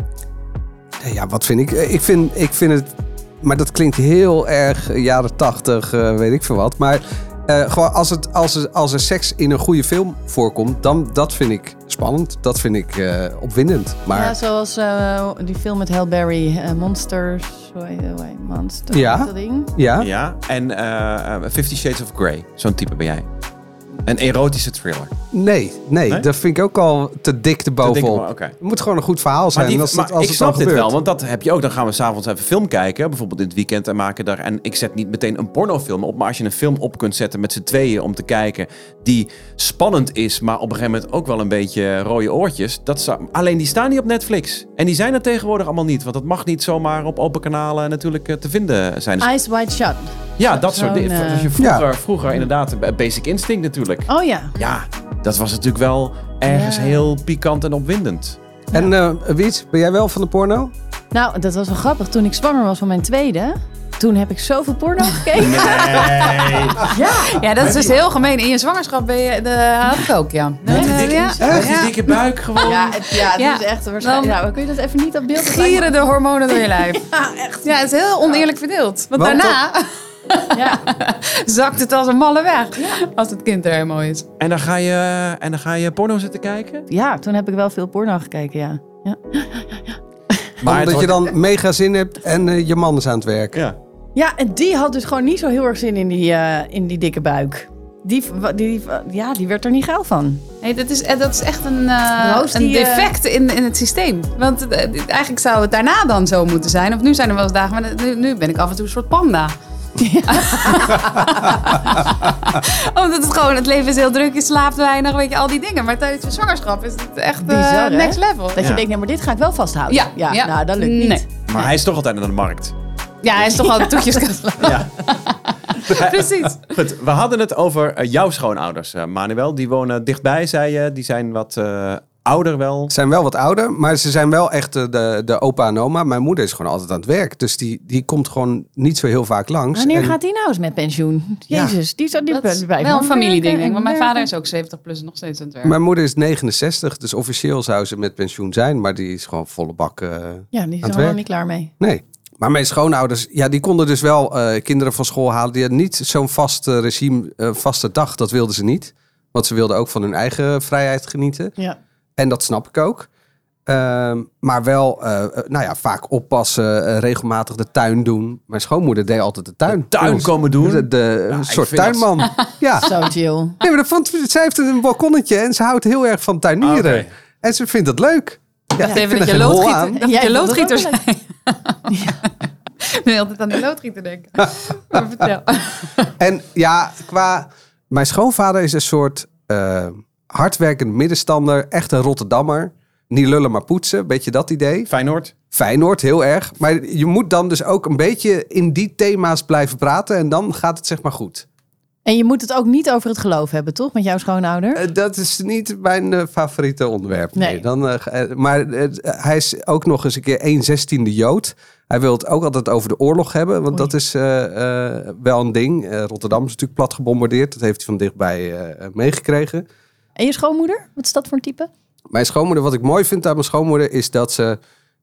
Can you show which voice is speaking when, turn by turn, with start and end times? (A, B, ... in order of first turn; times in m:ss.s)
0:01.0-0:14.4 A
0:14.1-0:19.7 B
0:18.9-0:20.1 A
0:20.0-0:23.2 C
0:24.0-0:25.2 C
0:25.3-0:30.9 A
0:27.8-0:28.6 C
0:29.5-0:49.3 C
0:49.2-0:51.5 B
0:50.4-0:58.4 C
0:51.6-0:51.9 A
0:54.1-0:54.5 B
0:56.5-0:57.1 B
0:58.7-1:00.7 A
1:01.1-1:07.5 B
1:05.4-1:07.0 C
1:05.5-1:06.2 D
1:07.2-1:12.1 D
1:07.6-1:07.9 A
1:10.6-1:11.4 B
1:10.7-1:13.0 C
1:11.4-1:11.7 A
1:12.6-1:16.0 B
1:13.1-1:14.4 D
1:15.3-1:17.1 D
1:16.6-1:18.4 B
1:17.6-1:24.3 D
1:19.2-1:19.6 A
1:20.5-1:20.8 B
1:24.4-1:26.9 C
1:26.9-1:31.0 B
1:30.6-1:31.3 C
1:30.6-1:33.6 A
1:34.2-1:40.5 B
1:40.6-1:49.5 D
1:42.2-1:43.1 B
1:50.0-1:51.6 B
1:50.3-1:58.7 D
1:57.4-2:01.3 B
1:58.6-1:58.8 C
1:59.9-2:01.2 D
2:01.5-2:02.7 C
2:03.2-2:05.2 D
2:03.3-2:04.9 B
2:04.6-2:04.9 C
2:05.8-2:12.9 C
2:05.9-2:06.6 D
2:12.9-2:20.2 A
2:19.7-2:24.3 B
2:21.5-2:21.8 A
2:22.3-2:25.8 D
2:25.6-2:31.2 A
2:30.5-2:31.7 B
2:31.8-2:41.6 A
2:42.2-2:43.1 A
2:43.7-2:53.0 A
2:49.7-2:52.1 C
2:52.8-2:53.6 B
2:53.6-3:00.1 A
2:56.6-2:57.1 C
2:58.8-3:02.2 D
3:00.0-3:01.0 B
3:01.9-3:02.3 B
3:02.8-3:06.1 D
3:06.2-3:14.9 A
3:14.9-3:15.3 C
3:15.5-3:21.5 A
3:22.1-3:24.8 B
3:24.8-3:39.6 A
3:27.4-3:27.6 B
3:40.2-3:41.7 B
3:42.1-3:44.6 A